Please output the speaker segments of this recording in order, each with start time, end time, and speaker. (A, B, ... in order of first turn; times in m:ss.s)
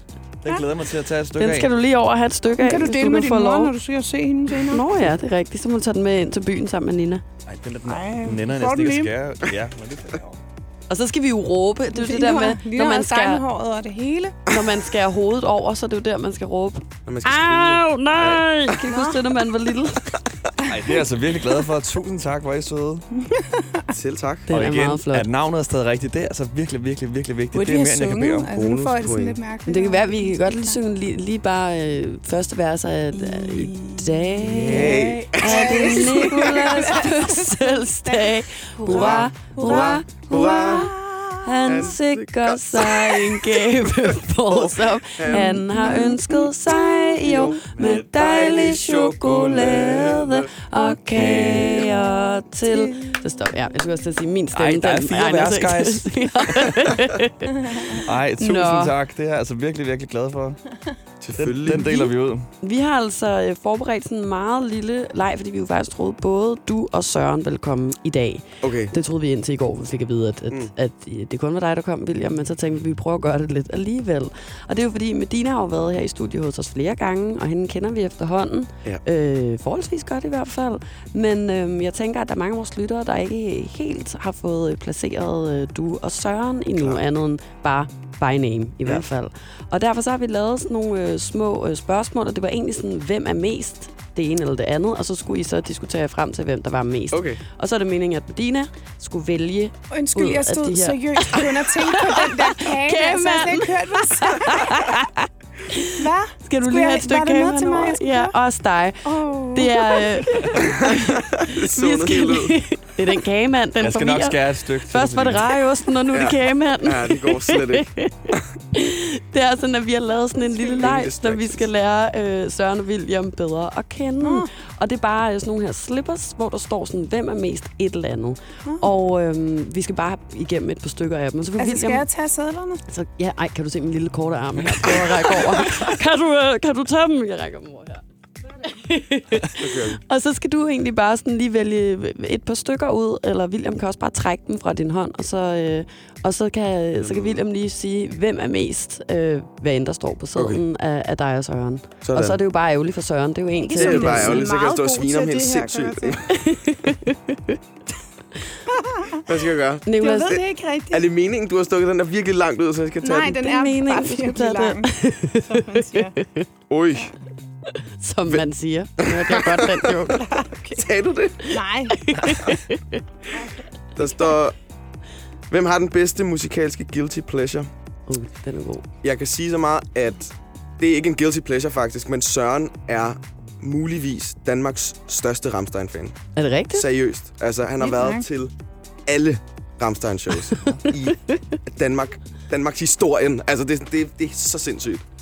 0:00.4-0:01.7 A
0:01.4-0:03.7 B
0:02.6-0:04.8 C
0:04.7-0:07.2 B
0:07.4-0:10.4 A
0:07.8-0:09.1 C
0:10.9-0:13.4 B
0:11.9-0:14.4 C
0:14.5-0:20.2 B
0:17.0-0:18.7 D
0:18.8-0:19.2 C
0:20.6-0:23.0 A
0:23.2-0:23.8 C
0:23.9-0:24.5 D
0:24.5-0:25.3 B
0:24.5-0:28.5 A
0:27.5-0:30.8 C
0:28.5-0:29.4 D
0:29.7-0:40.9 B
0:33.1-0:41.4 C
0:34.4-0:36.6 D
0:38.8-0:41.0 D
0:41.4-0:58.9 B
0:41.6-0:45.7 D
0:45.3-0:47.0 C
0:47.2-0:48.8 D
0:47.8-0:50.2 A
0:49.5-0:50.5 D
0:51.1-0:51.8 A
0:52.6-0:53.2 C
0:54.5-0:56.9 A
0:57.9-1:00.6 A
1:01.2-1:02.0 D
1:01.4-1:02.5 A
1:01.8-1:02.1 B
1:02.6-2:12.0 B
1:08.6-1:08.9 D
1:26.7-1:27.0 D
1:37.1-1:37.4 D
1:39.9-1:44.9 C
1:46.0-1:48.3 C
1:49.0-1:50.4 C
1:50.6-1:52.6 D
1:53.8-1:55.5 A
1:56.1-1:58.4 D
2:00.3-2:00.9 C
2:00.8-2:01.7 D
2:04.2-2:04.5 C
2:11.6-2:12.8 C
2:12.9-2:18.0 B
2:18.6-2:34.4 B
2:19.6-2:20.0 D
2:27.0-2:27.4 D
2:30.3-2:30.6 D
2:32.0-2:32.4 D
2:33.6-2:36.2 C
2:33.7-2:36.2 D
2:36.3-2:37.6 B
2:38.8-2:39.2 C
2:39.2-2:39.8 D
2:39.8-2:40.4 B
2:39.9-2:41.0 C
2:40.9-2:43.4 D
2:43.0-2:46.2 C
2:43.3-2:46.5 B
2:46.7-2:47.1 D
2:48.0-2:50.2 B
2:49.0-2:50.1 D
2:50.1-2:50.9 C
2:50.7-2:51.6 D
2:51.5-2:52.0 C
2:51.9-2:53.0 B
2:53.3-2:54.0 C
2:54.0-2:54.6 D
2:55.5-2:57.7 D
2:58.1-2:58.8 B
2:59.0-3:06.2 D
3:06.4-3:06.9 B
3:06.7-3:08.5 D
3:07.8-3:08.2 C
3:09.0-3:15.0 D